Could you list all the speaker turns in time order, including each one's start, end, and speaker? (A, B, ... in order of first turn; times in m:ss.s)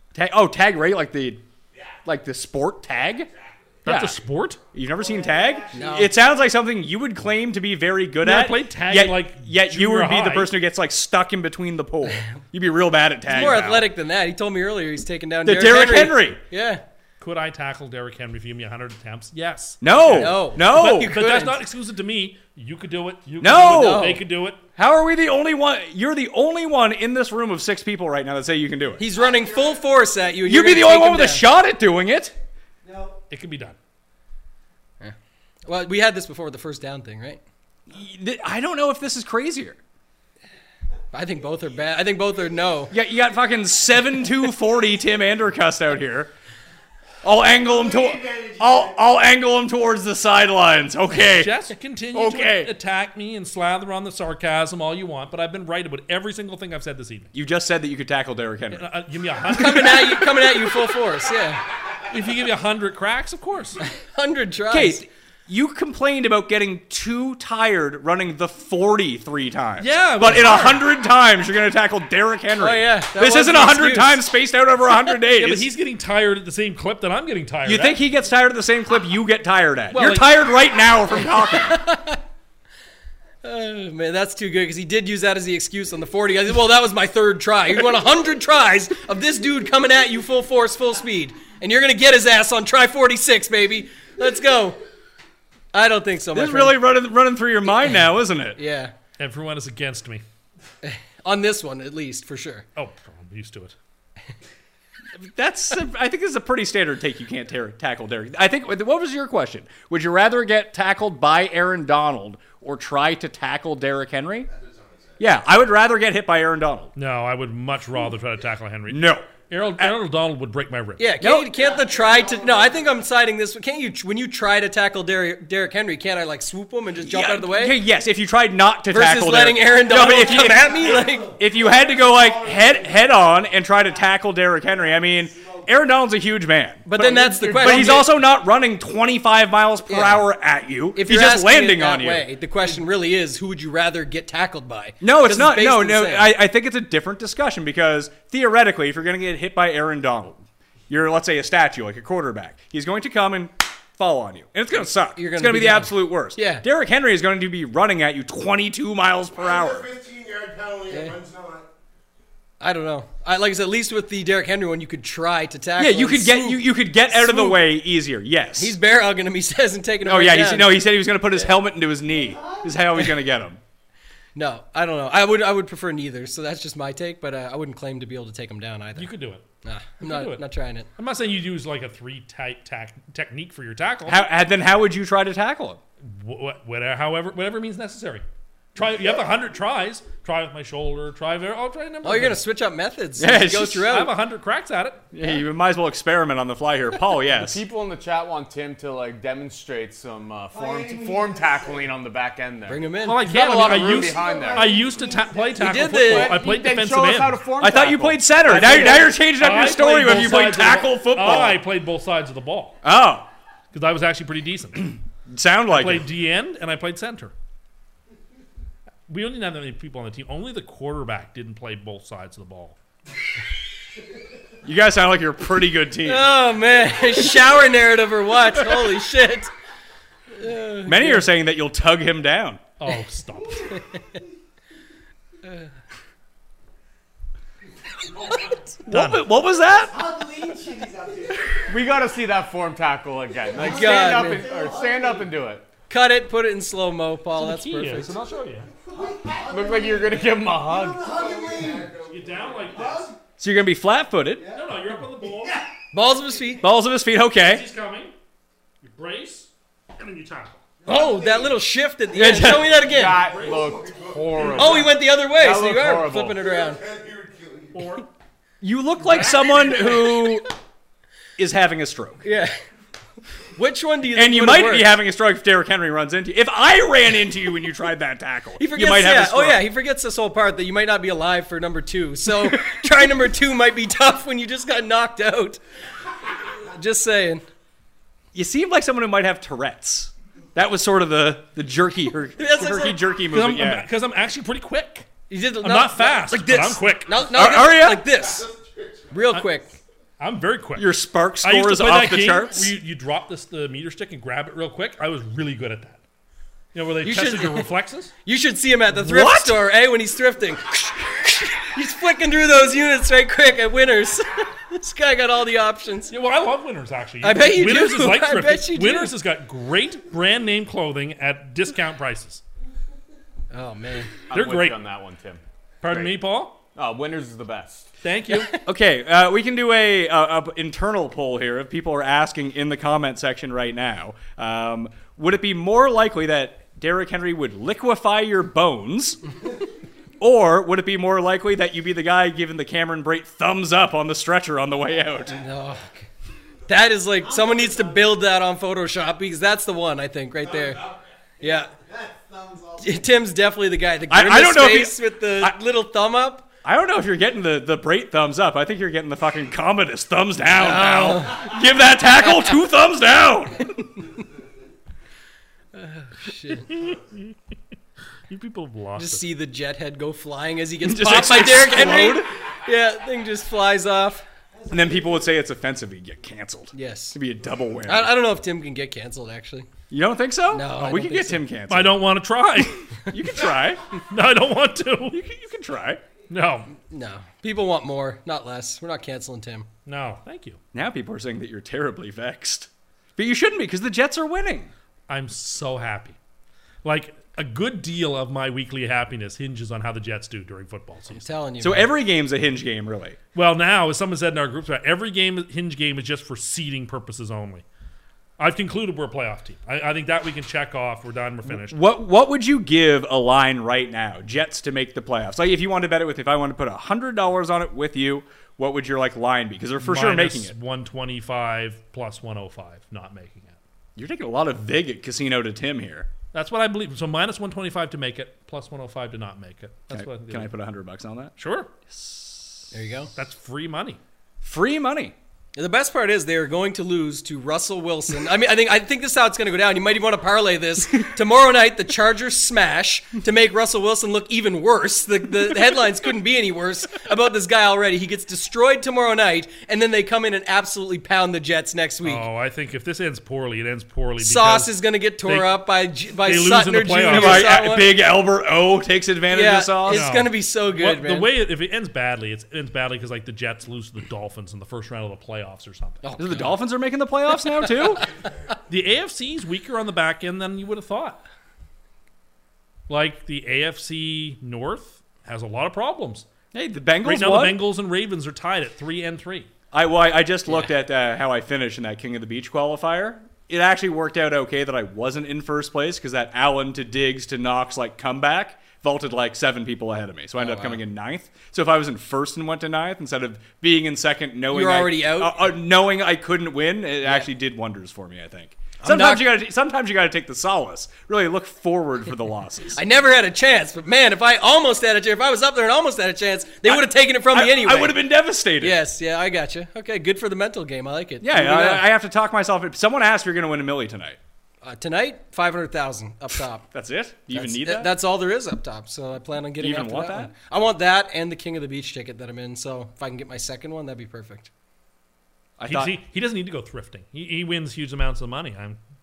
0:00.2-0:01.4 A
0:01.7-0:02.0 B
0:02.1-0:03.3 A
0:03.3-0:03.9 B
0:03.8-0:04.2 A
0:03.8-0:04.6 C
0:04.7-0:13.9 A
0:04.9-0:06.0 B
0:05.7-0:06.1 D
0:08.2-0:10.5 C
0:13.3-0:16.8 D
0:13.3-0:13.7 C
0:15.4-0:16.4 A
0:17.2-0:24.6 C
0:19.8-0:21.2 A
0:20.0-0:21.6 D
0:23.4-0:24.2 A
0:23.7-0:24.2 D
0:24.8-0:29.0 A
0:29.0-0:31.4 D
0:29.1-0:29.8 B
0:30.4-0:32.4 A
0:32.8-0:33.2 B
0:33.3-0:33.8 C
0:35.0-0:37.4 D
0:37.9-0:39.8 A
0:41.1-0:42.9 D
0:42.9-0:46.3 A
0:47.2-0:51.6 A
0:47.5-0:49.0 B
0:51.2-0:57.3 C
0:52.1-0:52.7 A
0:57.3-0:58.9 A
0:58.7-1:00.2 C
0:59.5-1:01.6 D
1:02.1-1:03.8 C
1:03.8-1:05.0 D
1:04.7-1:15.7 A
1:09.8-1:10.9 C
1:12.6-1:14.2 D
1:15.3-1:18.0 C
1:17.7-1:21.9 A
1:19.9-1:20.3 C
1:21.5-1:22.2 D
1:23.4-1:34.8 D
1:35.7-1:36.8 D
1:36.3-1:38.6 A
1:38.6-1:38.9 D
1:39.2-1:40.2 C
1:40.8-1:42.6 D
1:42.8-1:43.8 C
1:45.2-1:54.5 A
1:54.5-1:55.2 B
1:55.2-1:56.9 A
1:57.0-2:01.1 C
1:58.9-1:59.9 A
2:01.0-2:07.8 D
2:01.2-2:01.5 A
2:01.5-2:03.0 B
2:07.0-2:22.3 A
2:08.9-2:11.4 D
2:10.4-2:13.4 B
2:14.7-2:15.6 B
2:16.9-2:18.1 D
2:17.0-2:18.0 E
2:19.9-2:20.2 D
2:21.0-2:26.3 D
2:25.0-2:39.9 A
2:35.2-2:36.6 D
2:39.4-2:41.7 B
2:40.9-2:41.2 D
2:42.6-2:46.6 D
2:45.8-2:48.8 A
2:47.1-2:47.6 D
2:48.6-2:50.8 D
2:50.0-2:53.6 A
2:54.4-2:59.1 D
2:59.0-2:59.5 C
2:59.6-3:00.9 D
3:00.0-3:00.4 C
3:01.0-3:04.2 C
3:04.1-3:05.8 A
3:06.0-3:12.4 C
3:12.0-3:14.1 D
3:13.2-3:14.0 A
3:13.9-3:15.0 C
3:15.1-3:17.6 A
3:17.3-3:25.1 E
3:20.5-3:21.9 B
3:22.7-3:24.0 D
3:23.0-3:27.4 C
3:23.9-3:25.8 B
3:25.6-3:26.4 D
3:26.0-3:29.1 E
3:27.6-3:31.6 A
3:28.5-3:32.8 C
3:32.8-3:33.3 A
3:33.7-3:35.0 C
3:35.3-3:36.1 A
3:35.7-3:37.3 C
3:39.1-3:42.8 C
3:44.6-3:46.3 A
3:46.0-3:49.5 D
3:50.4-3:51.3 D
3:50.8-3:52.6 A
3:52.8-3:53.8 C
3:58.9-4:00.0 A
3:58.9-3:59.3 C
3:59.9-4:01.8 B
4:01.7-4:05.7 E
4:03.5-4:05.4 B
4:03.6-4:04.5 D
4:05.9-4:08.1 D
4:07.4-4:08.7 C
4:08.8-4:13.2 B
4:09.5-4:11.7 E
4:12.0-4:13.2 C
4:13.4-4:14.5 A
4:14.5-4:15.6 C
4:15.9-4:16.6 D
4:16.6-4:17.7 A
4:17.4-4:18.1 C
4:18.8-4:20.6 C
4:20.8-4:21.6 B
4:20.8-4:23.2 D
4:22.1-4:22.8 A
4:22.8-4:26.4 E
4:22.9-4:24.9 B
4:23.3-4:23.6 C
4:24.6-4:26.8 D
4:26.3-4:28.0 B
4:27.7-4:28.1 C
4:28.6-4:30.5 A
4:29.0-4:29.8 C
4:29.8-4:30.4 D
4:31.4-4:32.3 A
4:32.2-4:32.6 D
4:33.6-4:34.9 D
4:34.1-4:39.7 A
4:38.6-4:45.6 D
4:46.7-4:47.4 D
4:48.3-4:53.9 A
4:52.4-4:53.0 D
4:53.3-4:57.2 C
4:55.3-4:58.5 D
4:57.3-4:58.0 A
4:58.1-4:59.4 B
4:59.1-4:59.8 D
5:00.2-5:00.9 C
5:00.8-5:02.7 A
5:01.4-5:06.0 C
5:06.7-5:08.1 C
5:07.0-5:07.7 D
5:08.2-5:16.1 D
5:09.0-5:09.6 A
5:16.1-5:22.4 C
5:17.2-5:19.2 D
5:23.5-5:24.2 D
5:24.3-5:26.2 E
5:24.3-5:24.8 C
5:25.8-5:26.6 C
5:26.8-5:27.9 E
5:28.0-5:28.5 C
5:28.3-5:28.6 D
5:28.6-5:39.2 A
5:40.2-5:45.4 A
5:45.3-5:46.1 D
5:46.7-5:50.8 D
5:47.2-5:48.0 B
5:50.4-5:52.9 B
5:51.4-5:51.7 D
5:52.8-5:56.5 D
5:54.1-5:55.6 A
5:56.6-6:03.9 A
6:00.5-6:01.5 D
6:05.8-6:06.7 D
6:06.6-6:07.3 C
6:08.3-6:09.2 C
6:09.0-6:14.3 D
6:10.8-6:12.3 A
6:14.7-6:18.2 A
6:16.7-6:17.2 D
6:17.9-6:19.7 D
6:19.9-6:22.0 A
6:20.5-6:21.4 D
6:21.7-6:22.9 C
6:23.1-6:23.8 A
6:24.1-6:25.2 C
6:25.1-6:26.0 A
6:26.3-6:26.7 C
6:26.9-6:29.7 D
6:29.9-6:30.6 C
6:30.7-6:34.7 A
6:35.1-6:36.2 C
6:36.8-6:41.2 C
6:41.1-6:41.9 D
6:41.6-6:43.2 A
6:43.4-6:47.6 C
6:48.4-6:51.8 C
6:51.5-7:00.6 A
6:59.8-7:03.6 C
7:04.0-7:06.1 A
7:06.3-7:10.5 C
7:09.9-7:11.4 A
7:11.4-7:11.7 C
7:11.9-7:12.7 A
7:12.7-7:13.1 D
7:13.2-7:14.0 C
7:14.4-7:15.2 A
7:15.6-7:32.2 D
7:32.0-7:34.7 C
7:34.2-7:37.9 D
7:35.2-7:35.5 C
7:36.2-7:37.5 C
7:37.1-7:40.1 A
7:39.3-7:41.3 D
7:39.9-7:46.0 C
7:46.0-7:46.6 D
7:46.2-7:48.1 A
7:48.7-7:51.2 C
7:52.9-7:56.3 C
7:56.5-7:57.6 A
7:57.0-7:59.5 C
7:59.7-8:22.8 A
8:10.4-8:10.8 D
8:14.5-8:15.4 D
8:18.8-8:19.3 D
8:22.7-8:28.0 D
8:26.6-8:28.8 A
8:28.6-8:31.9 D
8:31.2-8:34.2 A
8:34.6-8:36.6 D
8:36.7-8:37.9 A
8:37.3-8:44.5 D
8:39.6-8:40.3 A
8:45.6-8:46.0 A
8:45.7-8:48.8 C